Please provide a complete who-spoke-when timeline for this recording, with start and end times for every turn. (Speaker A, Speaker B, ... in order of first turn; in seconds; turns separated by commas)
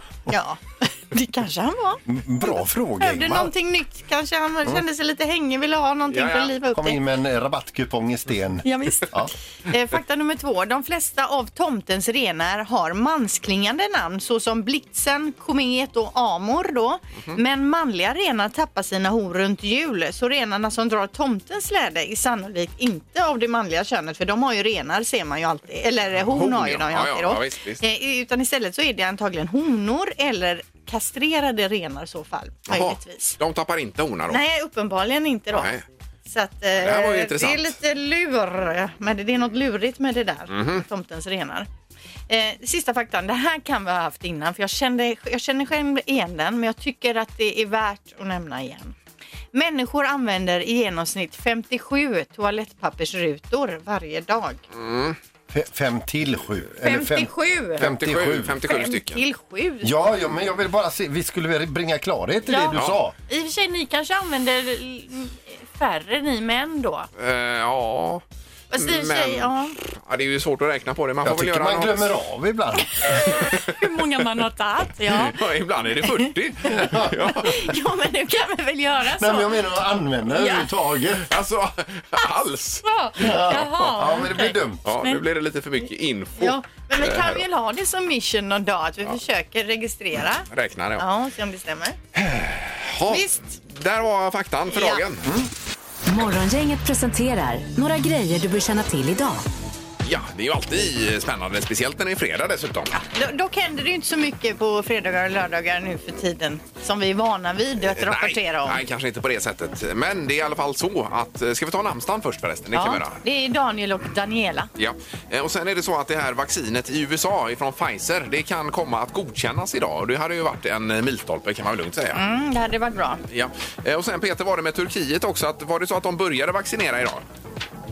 Speaker A: 0.3-2.0, Speaker B: 2.1-3.5, Speaker A: 3.0-7.0, Speaker C: 6.1-6.5, Speaker B: 6.7-9.3, Speaker A: 8.6-33.4, Speaker C: 26.2-27.8, Speaker C: 32.7-34.4, Speaker A: 34.3-35.7, Speaker C: 35.5-35.8, Speaker A: 36.2-41.7, Speaker C: 36.8-37.7, Speaker C: 40.5-40.8, Speaker A: 42.3-48.9, Speaker A: 49.5-54.6, Speaker C: 54.7-55.2, Speaker B: 55.5-58.6, Speaker A: 56.8-57.8, Speaker C: 57.8-59.2, Speaker A: 58.6-59.9, Speaker B: 59.8-63.1, Speaker A: 62.5-67.1, Speaker C: 62.7-63.0, Speaker C: 67.2-68.2, Speaker A: 68.7-69.7, Speaker C: 68.7-72.1, Speaker B: 71.2-73.0, Speaker A: 73.0-75.4, Speaker C: 75.1-77.7, Speaker B: 76.7-77.1, Speaker A: 77.3-79.6, Speaker B: 79.2-81.3, Speaker A: 80.3-80.7, Speaker C: 81.3-82.8, Speaker A: 82.8-85.2, Speaker B: 83.2-84.8, Speaker C: 84.8-87.4, Speaker A: 86.4-90.5, Speaker C: 90.5-91.0, Speaker A: 91.0-92.0, Speaker C: 92.1-95.3, Speaker A: 93.1-93.5, Speaker A: 94.7-95.0, Speaker D: 96.0-99.4, Speaker C: 100.0-103.0, Speaker A: 103.0-108.8, Speaker C: 107.8-113.2, Speaker A: 112.7-114.7, Speaker C: 114.8-122.2, Speaker A: 122.1-123.2, Speaker C: 123.3-127.2